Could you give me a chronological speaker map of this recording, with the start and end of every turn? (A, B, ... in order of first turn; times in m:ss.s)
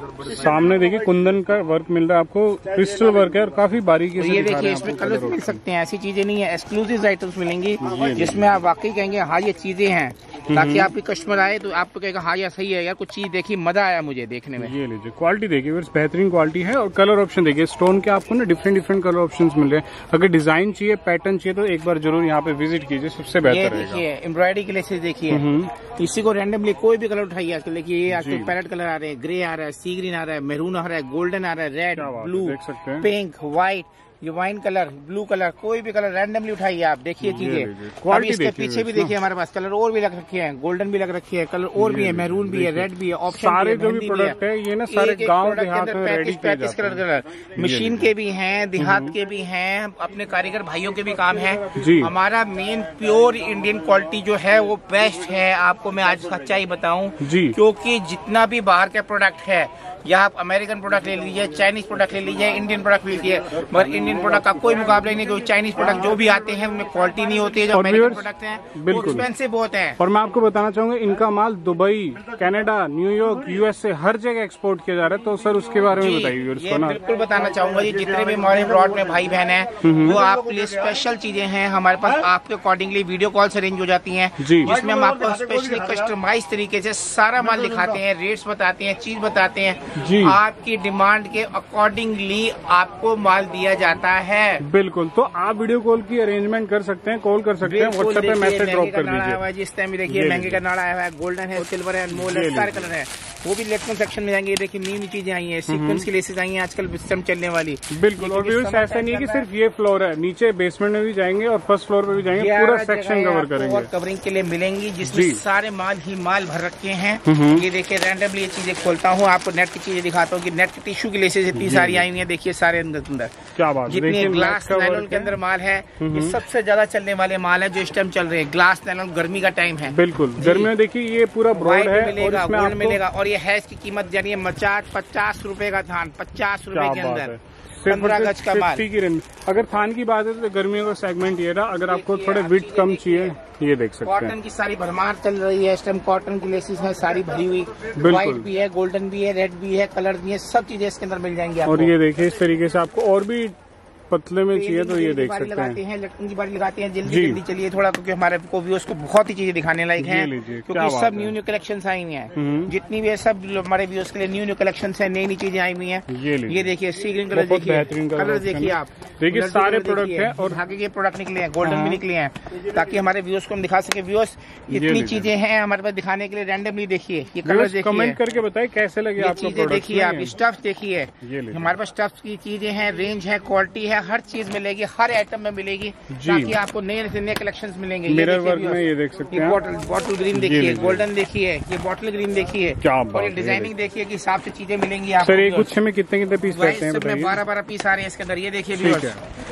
0:00.2-0:05.6 A
0:04.2-0:14.8 B
0:07.8-0:08.5 A
0:10.5-0:10.9 A
0:14.6-0:24.0 A
0:23.4-0:44.4 B
0:25.3-0:25.7 A
0:28.1-0:28.5 A
0:32.0-0:33.1 A
0:37.2-0:39.2 A
0:41.8-0:47.0 A
0:44.9-1:10.0 B
0:47.6-0:48.1 A
0:48.8-0:49.2 A
0:51.7-0:52.1 A
0:57.2-0:57.6 A
1:07.7-1:09.3 A
1:10.0-1:17.0 A
1:15.9-1:34.6 B
1:19.8-1:20.2 A
1:24.4-1:24.8 A
1:30.0-1:30.4 A
1:34.6-1:39.4 A
1:37.6-1:49.5 B
1:40.1-1:40.6 A
1:42.1-1:42.8 A
1:45.7-1:46.1 A
1:47.9-1:53.9 A
1:52.4-2:10.7 B
1:55.0-1:55.4 A
1:57.3-1:57.7 A
2:01.5-2:02.1 A
2:03.6-2:05.4 A
2:06.0-2:06.4 A
2:09.9-2:13.0 A
2:11.6-2:17.3 B
2:16.7-2:24.3 A
2:17.9-2:18.8 B
2:21.9-2:23.4 B
2:24.0-2:31.9 B
2:28.0-2:28.5 A
2:31.7-2:33.6 A
2:34.1-2:35.8 A
2:34.5-2:58.2 B
2:37.1-2:37.4 A
2:40.0-2:41.3 A
2:42.4-2:42.7 A
2:46.1-2:46.7 A
2:47.3-2:50.6 A
2:51.6-2:52.0 A
2:54.7-2:55.3 A
2:57.4-3:00.4 A
2:59.2-3:15.7 B
3:01.2-3:01.8 A
3:06.1-3:06.6 A
3:08.1-3:09.6 A
3:10.3-3:11.0 A
3:12.8-3:13.7 A
3:15.2-3:17.4 A
3:16.4-3:19.2 B
3:18.8-3:19.2 A